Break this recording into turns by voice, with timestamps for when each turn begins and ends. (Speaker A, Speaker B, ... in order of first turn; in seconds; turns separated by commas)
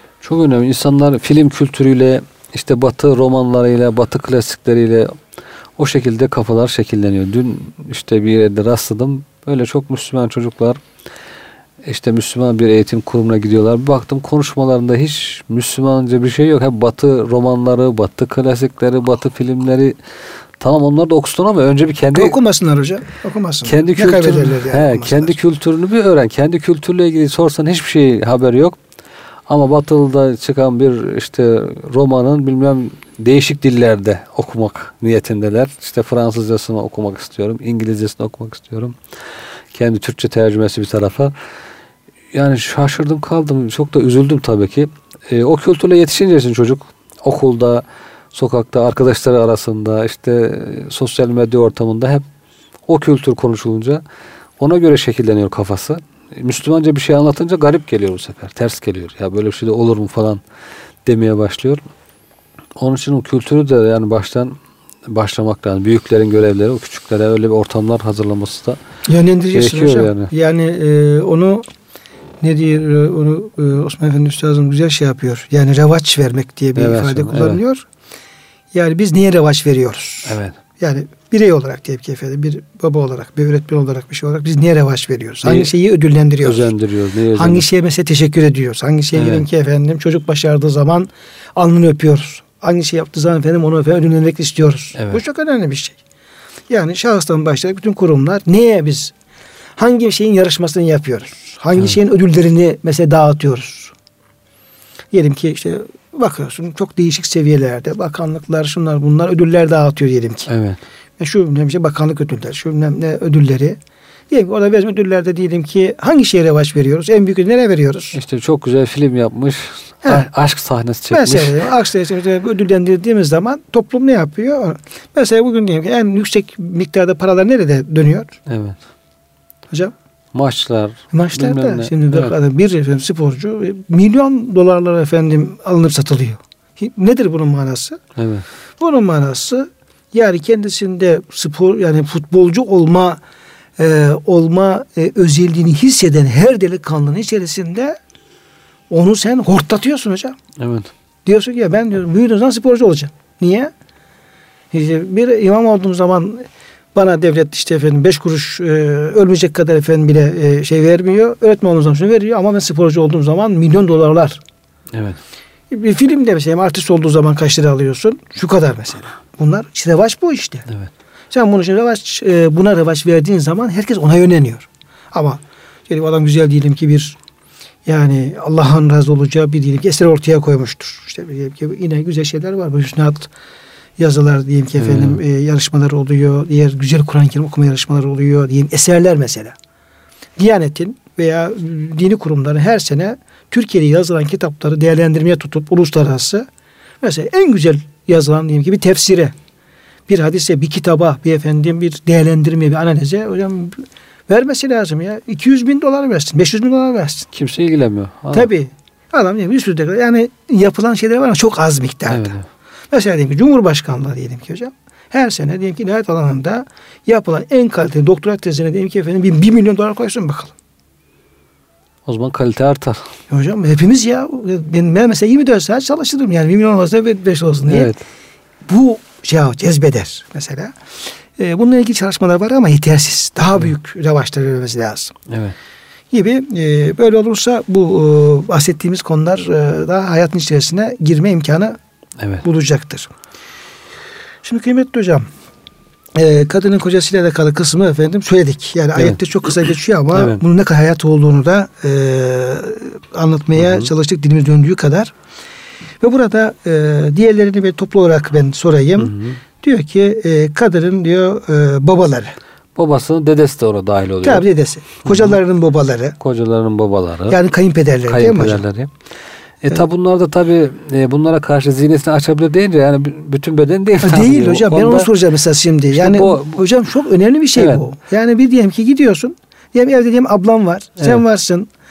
Speaker A: 0.2-5.1, Speaker A: 5.8-10.8, Speaker A: 11.8-20.0, Speaker A: 20.6-22.4, Speaker B: 22.1-25.4, Speaker A: 23.6-28.8, Speaker A: 29.5-39.0, Speaker A: 39.7-41.3, Speaker A: 42.3-52.2, Speaker A: 52.9-54.0, Speaker A: 54.6-60.4, Speaker A: 61.0-61.8, Speaker A: 62.8-64.5, Speaker A: 65.1-68.8, Speaker B: 69.0-71.6, Speaker A: 69.5-70.3, Speaker B: 72.4-77.8, Speaker A: 76.8-77.6, Speaker B: 78.7-86.7, Speaker A: 80.2-80.6, Speaker A: 85.4-85.7, Speaker A: 86.4-87.6, Speaker B: 87.3-96.0, Speaker A: 89.1-89.4, Speaker B: 96.7-99.1, Speaker B: 99.8-103.9, Speaker B: 105.1-110.5, Speaker A: 110.5-110.8, Speaker B: 111.2-113.8, Speaker B: 114.3-118.2, Speaker A: 118.1-121.6, Speaker B: 121.1-128.3, Speaker A: 128.5-128.8, Speaker A: 130.3-132.3, Speaker B: 131.1-138.0, Speaker A: 138.2-138.4, Speaker B: 138.8-143.2, Speaker B: 143.8-148.0, Speaker B: 148.9-150.4, Speaker A: 150.6-150.9, Speaker B: 151.2-153.7, Speaker B: 154.7-164.4, Speaker A: 164.9-165.2, Speaker B: 165.7-170.7, Speaker B: 171.3-177.2, Speaker B: 177.8-183.3, Speaker B: 184.0-189.5, Speaker A: 184.8-185.2, Speaker B: 190.4-196.5, Speaker B: 197.0-199.3, Speaker B: 200.1-207.3, Speaker A: 207.3-208.5, Speaker B: 208.3-212.4, Speaker A: 212.1-212.4, Speaker B: 212.9-220.5, Speaker A: 222.1-223.1, Speaker B: 223.3-227.9, Speaker A: 227.7-228.0, Speaker B: 228.7-230.7, Speaker B: 231.4-235.1, Speaker A: 235.3-235.6, Speaker B: 236.1-241.8, Speaker A: 242.2-242.4, Speaker B: 242.4-243.1, Speaker B: 244.4-245.2, Speaker B: 246.2-255.1, Speaker A: 250.1-250.4, Speaker A: 253.6-253.9, Speaker B: 256.0-262.3, Speaker A: 259.0-259.4, Speaker A: 262.8-264.4, Speaker B: 264.2-266.2, Speaker A: 265.0-265.4, Speaker A: 266.2-267.4, Speaker B: 267.3-268.6, Speaker A: 268.1-268.9, Speaker A: 269.6-275.1, Speaker B: 274.0-281.7, Speaker A: 275.9-276.6, Speaker A: 277.6-277.8